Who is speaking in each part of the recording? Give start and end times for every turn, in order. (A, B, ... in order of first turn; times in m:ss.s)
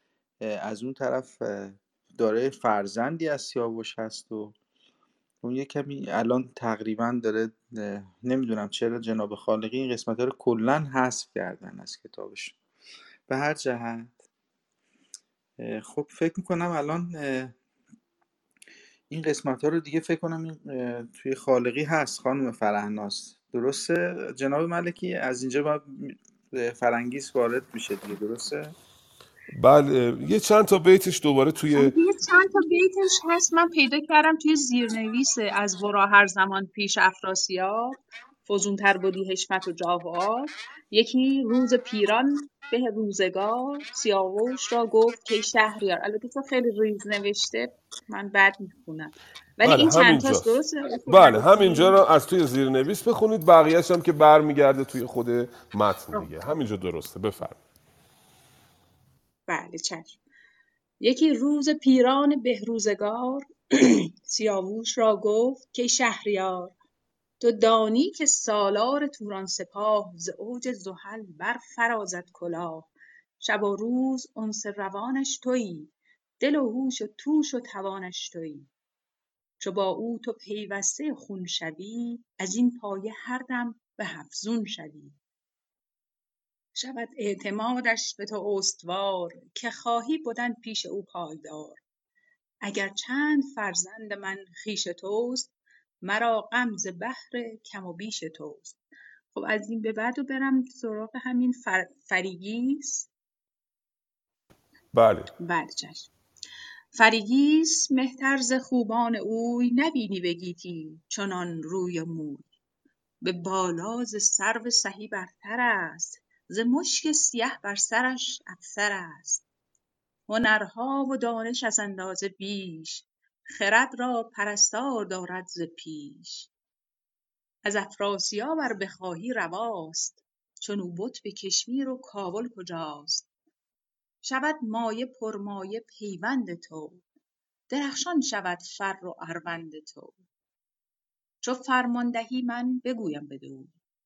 0:00.4-0:04.5 A
0:05.4-0:12.6 A
0:13.3-0:14.2 A
0:15.6-0:17.5 A
0:19.1-0:28.7 A
0:29.5-0:31.9 B
0:31.7-0:52.0 C
0:49.6-0:50.5 B
0:51.1-0:57.6 B
0:59.5-1:00.2 C
1:01.0-1:06.7 C
1:07.4-1:18.7 C
1:19.6-1:25.2 C
1:26.7-1:31.8 C
1:32.6-1:35.5 C
1:36.0-1:38.8 C
1:39.3-1:43.1 C
1:44.9-1:45.3 B
1:45.4-1:46.1 C
1:46.9-1:52.5 C
1:53.2-1:59.4 C
2:00.3-2:06.5 C
2:07.6-2:13.3 C
2:14.2-2:17.0 C
2:17.7-2:20.2 C
2:21.4-2:23.7 C